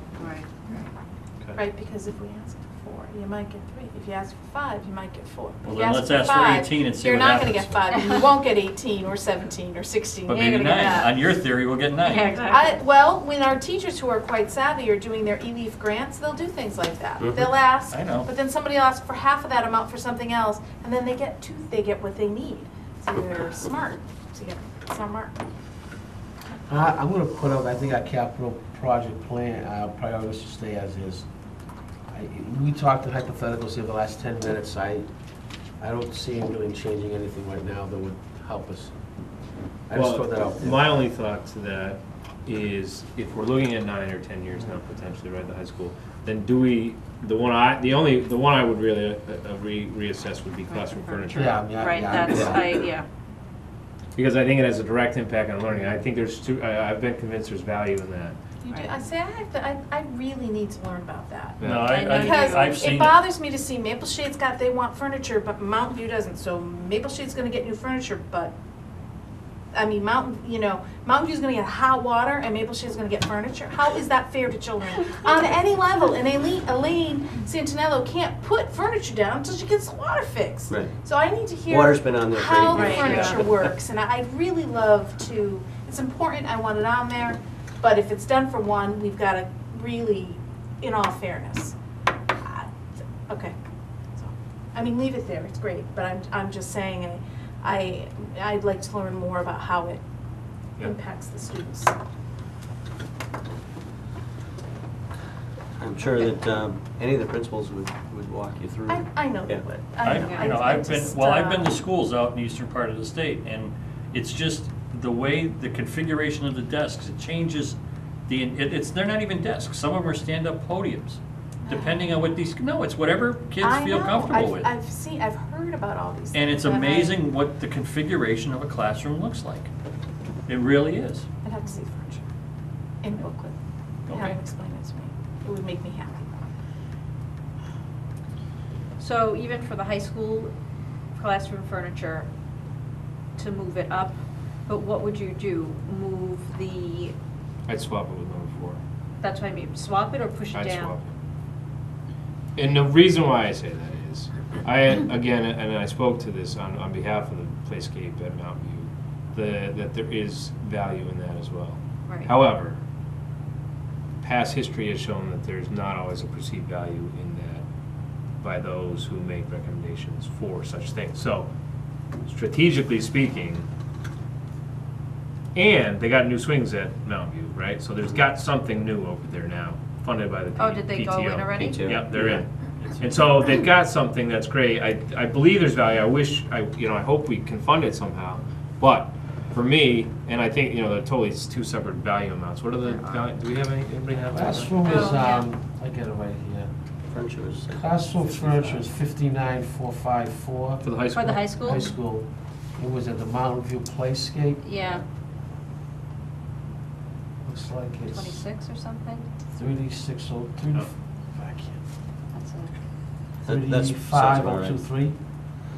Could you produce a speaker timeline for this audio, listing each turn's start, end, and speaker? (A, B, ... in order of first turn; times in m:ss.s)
0:00.2-0:00.5 A
0:01.6-0:11.1 B
0:05.6-0:07.8 C
0:10.3-0:12.4 C
0:12.0-0:12.8 A
0:12.4-0:25.3 B
0:17.2-0:17.5 D
0:17.9-0:18.3 C
0:26.7-0:31.2 E
0:32.1-0:35.1 E
0:35.8-0:38.9 E
0:39.9-0:41.0 E
0:39.9-0:51.6 F
0:50.7-0:53.0 A
0:51.3-0:52.7 E
0:52.2-0:52.6 F
0:54.1-0:58.4 F
0:58.6-1:08.5 B
1:01.6-1:01.9 F
1:01.6-1:03.2 C
1:01.9-1:02.8 A
1:09.7-1:31.8 B
1:20.7-1:20.9 D
1:21.7-1:23.7 D
1:22.7-1:23.4 A
1:32.4-1:32.7 B
1:33.3-1:33.5 B
1:34.2-1:40.0 B
1:40.8-1:41.9 B
1:45.8-1:49.6 D
1:48.9-1:51.8 B
1:50.0-2:04.7 C
1:50.2-1:50.6 A
2:01.6-2:02.1 B
2:03.6-2:07.2 B
2:06.3-2:09.7 C
2:10.5-2:11.3 C
2:11.4-2:12.2 B
2:13.0-2:16.2 B
2:14.1-2:14.4 C
2:19.0-2:20.5 A
2:21.1-2:22.3 A
2:23.4-2:27.1 A
2:27.7-2:28.8 F
2:29.2-2:30.9 A
2:30.5-2:31.1 F
2:32.6-2:42.8 F
2:42.1-2:42.4 A
2:44.2-2:47.6 F
2:48.4-2:51.5 F
2:52.2-2:53.7 F
2:55.5-3:02.4 F
3:00.6-3:01.8 A
3:01.6-3:02.4 D
3:02.8-3:03.3 C
3:03.0-3:15.0 F
3:12.9-3:13.2 A
3:14.3-3:16.7 E
3:14.8-3:15.4 A
3:17.1-3:18.9 D
3:17.7-3:20.9 E
3:20.8-3:21.8 F
3:21.1-3:21.9 A
3:21.5-3:24.7 E
3:24.6-3:25.0 A
3:27.4-3:28.4 E
3:28.0-3:29.2 A
3:29.5-3:31.8 E
3:32.3-3:32.7 A
3:33.4-3:34.8 D
3:33.4-3:35.2 E